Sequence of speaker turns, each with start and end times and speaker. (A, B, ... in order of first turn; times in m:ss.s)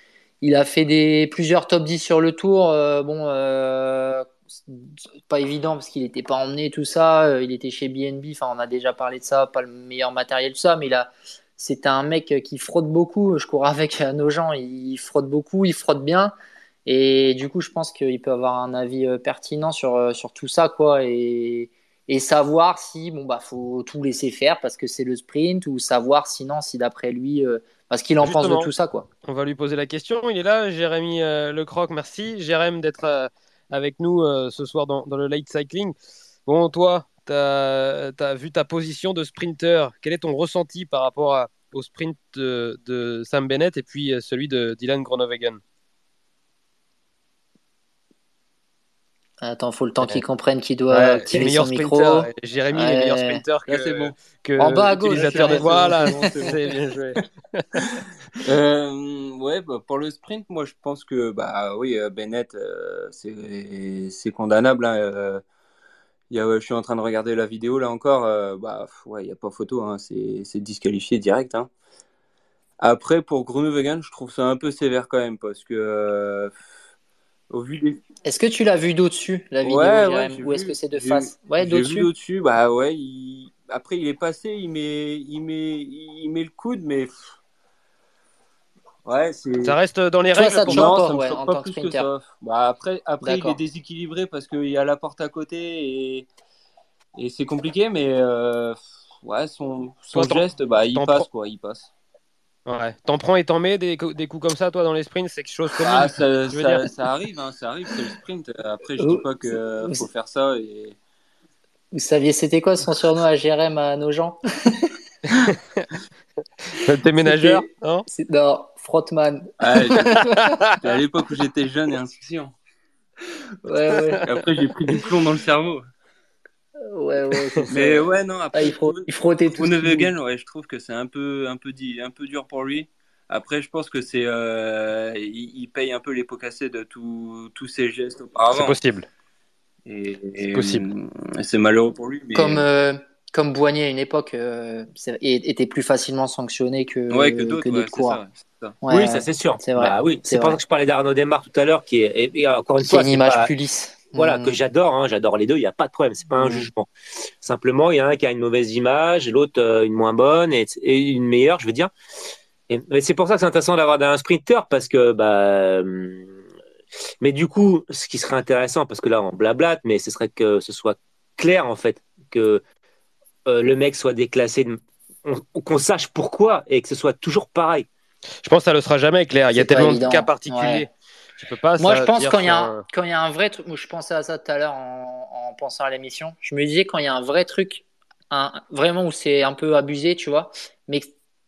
0:00.4-0:16.3 A
0:16.9-0:29.1 A
0:28.2-0:28.7 B
0:29.2-0:36.0 B
0:36.5-0:45.6 B
0:49.4-0:53.4 A
0:50.9-0:57.8 B
0:53.7-0:54.2 C
0:54.6-0:56.4 A
0:55.1-0:56.8 C
0:58.4-1:05.4 C
1:06.3-1:11.7 C
1:12.8-1:16.6 C
1:17.5-1:18.0 C
1:18.2-1:22.1 A
1:19.6-1:27.2 C
1:29.0-1:29.8 C
1:29.6-1:30.9 B
1:30.4-1:32.1 A
1:30.7-1:36.3 C
1:33.2-1:33.6 A
1:37.2-1:41.9 C
1:40.1-1:41.3 B
1:42.7-1:46.9 B
1:45.8-1:51.0 C
1:49.0-1:49.3 A
1:49.8-1:50.1 A
1:51.9-1:54.9 A
1:55.3-1:55.9 B
1:56.7-1:58.1 B
1:57.2-2:00.6 A
1:59.6-2:00.2 C
2:00.0-2:00.8 B
2:00.8-2:02.5 C
2:03.6-2:04.2 A
2:04.0-2:04.2 B
2:04.2-2:05.8 C
2:06.8-2:10.1 A
2:07.7-2:18.8 C
2:18.5-2:19.1 B
2:19.9-2:22.6 C
2:20.4-2:20.8 B
2:22.3-2:28.2 A
2:27.1-2:28.8 C
2:28.8-2:30.6 A
2:28.9-2:33.5 D
2:32.8-2:34.6 A
2:34.2-2:36.9 D
2:36.4-2:36.7 A
2:37.4-2:41.9 D
2:42.7-2:46.4 D
2:47.2-2:52.6 D
2:53.5-2:57.9 D
2:58.4-3:02.8 B
2:59.5-3:00.9 A
3:01.8-3:11.1 A